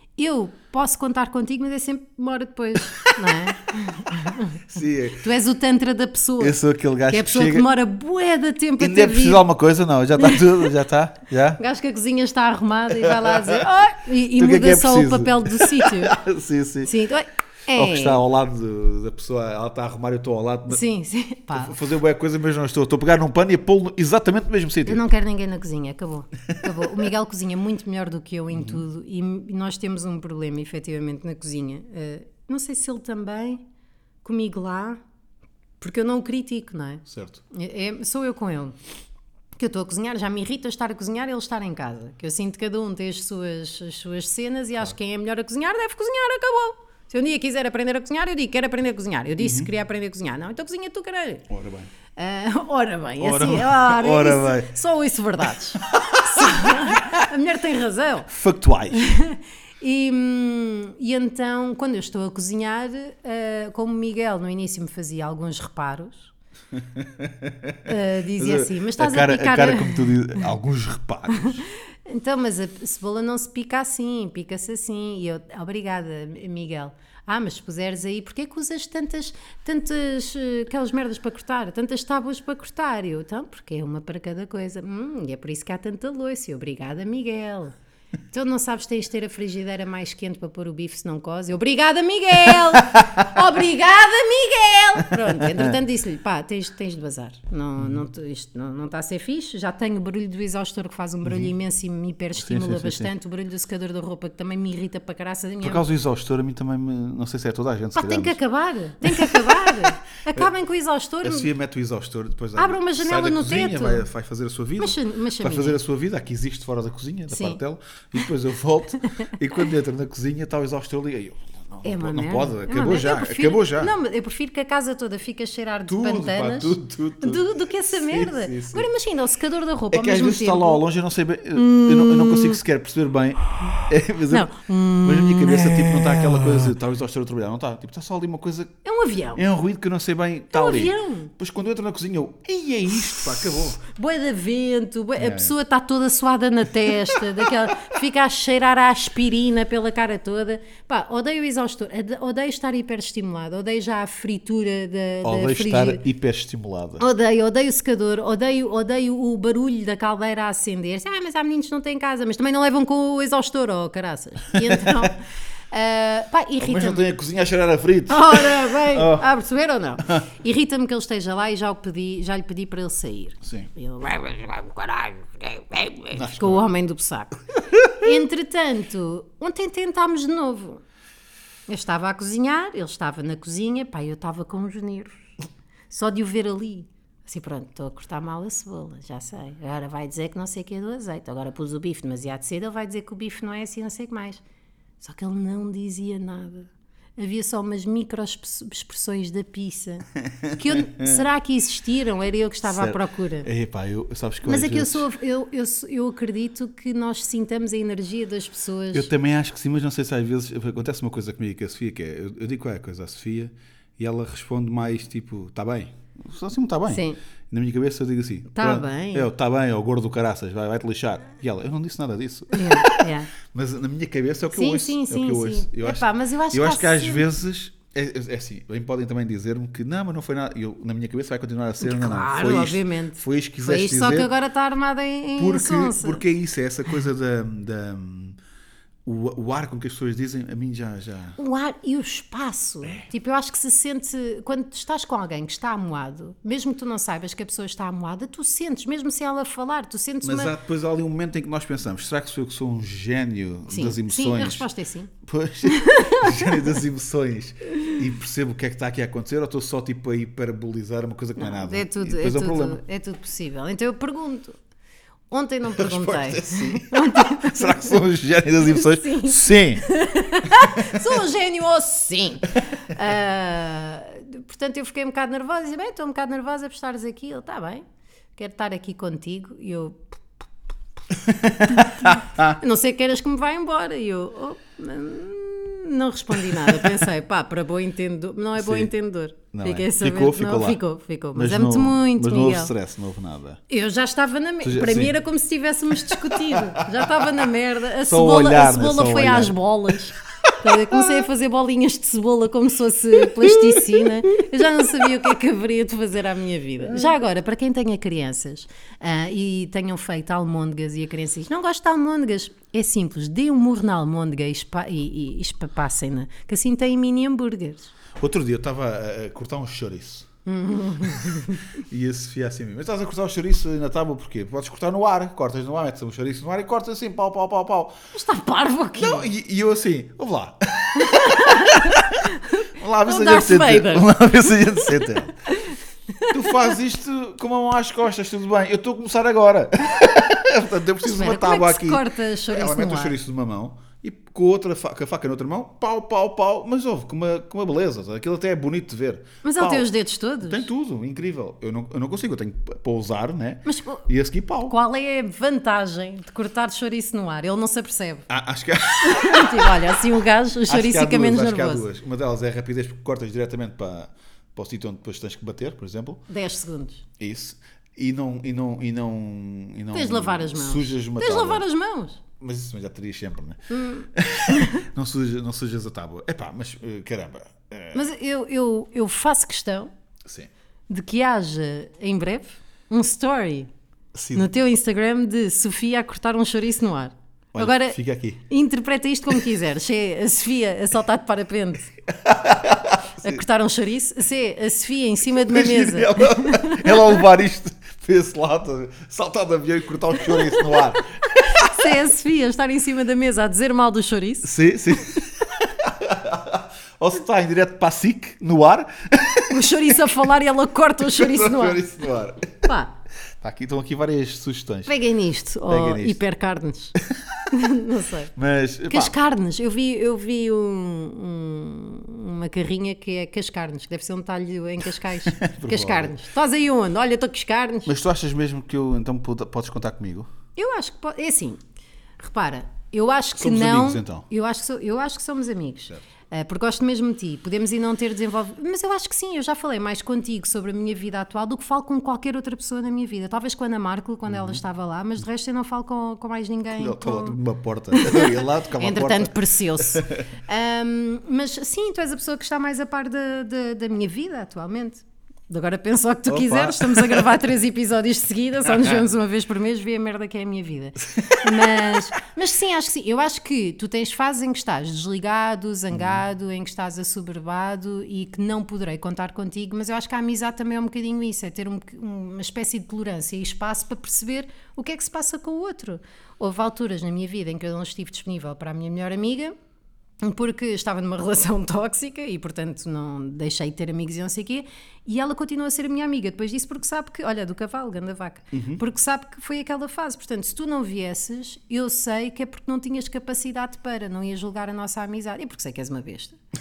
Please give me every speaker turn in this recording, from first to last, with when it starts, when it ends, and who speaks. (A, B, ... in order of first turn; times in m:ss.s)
0:00.2-0:04.6 A
0:04.2-0:05.2 B
0:05.2-0:09.4 A
0:06.4-0:07.7 B
0:08.8-0:11.6 B
0:11.6-0:16.2 A
0:13.0-0:13.6 B
0:14.4-0:16.9 B
0:16.8-0:18.2 A
0:17.7-0:20.8 B
0:20.7-0:21.8 A
0:21.5-0:25.0 B
0:24.9-0:33.6 A
0:28.5-0:28.8 B
0:34.2-0:35.0 A
0:35.8-0:38.8 A
0:37.1-0:37.4 B
0:39.6-0:51.4 A
0:49.4-0:49.7 B
0:51.5-0:51.9 B
0:52.2-0:58.3 A
0:53.2-0:54.7 B
0:55.8-0:57.2 B
0:58.3-0:59.1 B
0:58.9-1:06.3 A
1:06.8-1:11.6 B
1:07.8-1:10.2 A
1:11.9-1:27.7 A
1:28.3-1:45.8 A
1:32.5-1:33.2 B
1:35.3-1:35.7 B
1:37.8-1:38.0 B
1:41.2-1:41.5 B
1:42.4-1:43.1 B
1:45.6-1:48.4 B
1:47.9-1:51.5 A
1:49.0-1:50.5 B
1:51.2-2:03.9 B
1:52.6-1:54.1 A
1:54.8-1:55.8 A
1:57.3-1:57.6 A
2:01.8-2:10.8 A
2:05.9-2:08.9 B
2:09.9-2:14.5 B
2:11.5-2:12.6 A
2:14.3-2:16.7 A
2:15.0-2:18.7 B
2:18.8-2:19.4 A
2:19.4-2:23.8 B
2:20.5-2:21.3 A
2:23.8-2:36.0 A
2:25.2-2:25.5 B
2:35.2-2:37.0 B
2:37.0-2:47.0 A
2:44.5-2:45.1 B
2:46.6-2:49.3 B
2:48.1-3:00.8 A
2:53.4-2:53.7 B
2:56.1-2:56.6 B
2:57.7-2:58.1 B
3:01.7-3:05.2 A
3:05.9-3:14.4 A
3:15.0-3:23.5 A
3:20.3-3:21.2 B
3:22.6-3:25.1 B
3:24.4-3:29.1 A
3:28.9-3:54.3 B
3:36.9-3:37.2 A
3:38.5-3:39.3 A
3:42.5-3:43.3 A
3:44.5-3:47.2 A
3:51.8-3:56.2 A
3:55.4-3:58.4 B
3:59.0-4:01.4 B
4:01.4-4:10.5 A
4:10.2-4:14.6 B
4:13.7-4:15.1 A
4:15.2-4:22.8 B
4:15.6-4:16.7 A
4:21.4-4:24.6 A
4:25.3-4:28.0 A
4:25.7-4:29.8 B
4:28.7-4:37.8 A
4:30.6-4:31.0 B
4:38.4-4:40.2 A
4:41.2-4:42.6 B
4:41.6-4:52.7 A
4:46.4-4:47.0 B
4:48.6-4:48.9 B
4:49.5-4:50.8 B
4:51.4-4:53.6 B
4:53.7-5:17.9 A
4:54.6-4:55.2 B
4:56.0-4:57.3 B
4:58.0-4:59.6 B
5:00.5-5:01.0 B
5:03.2-5:05.1 B
5:18.2-5:20.3 B
5:20.4-5:21.6 A
5:21.0-5:28.0 B
5:28.1-5:29.3 A
5:29.0-5:35.4 B
5:31.0-5:34.2 A
5:34.7-5:36.5 A
5:36.3-5:54.7 B
5:41.0-5:43.1 A
5:49.4-5:50.6 A
5:53.6-5:54.0 A
5:54.6-5:58.3 A
5:58.3-6:00.0 B
5:59.0-6:01.8 A
6:00.7-6:06.2 B
6:06.3-6:07.0 A
6:07.2-6:11.6 B
6:09.9-6:12.2 A
6:12.4-6:18.1 B
6:13.7-6:14.8 A
6:17.9-6:19.9 A
6:20.2-6:20.5 B
6:20.9-6:23.7 A
6:24.1-6:24.5 B
6:24.3-6:28.0 A
6:27.5-6:28.4 B
6:28.5-6:31.9 A
6:32.1-6:33.4 B
6:33.2-6:37.1 A
6:35.4-6:41.8 B
6:40.3-6:44.5 A
6:44.4-6:49.9 B
6:49.5-6:51.8 A
6:51.0-6:52.7 B
6:52.6-6:52.9 A
6:53.4-6:54.9 B
6:54.9-6:56.9 A
6:55.7-6:56.2 B
6:57.1-6:57.5 B
6:57.5-6:58.3 A
6:58.4-6:59.1 B
6:58.9-7:07.9 A
7:05.2-7:06.2 B
7:07.9-7:10.3 B
7:10.6-7:11.6 A
7:12.2-7:27.4 A
7:13.4-7:14.3 B
7:24.3-7:24.6 B
7:26.7-7:30.2 B
7:27.9-7:59.5 A
7:36.3-7:37.4 B
7:38.7-7:39.0 B
7:41.2-7:42.0 B
7:45.9-7:46.2 B
8:00.2-8:16.4 A
8:08.5-8:08.8 B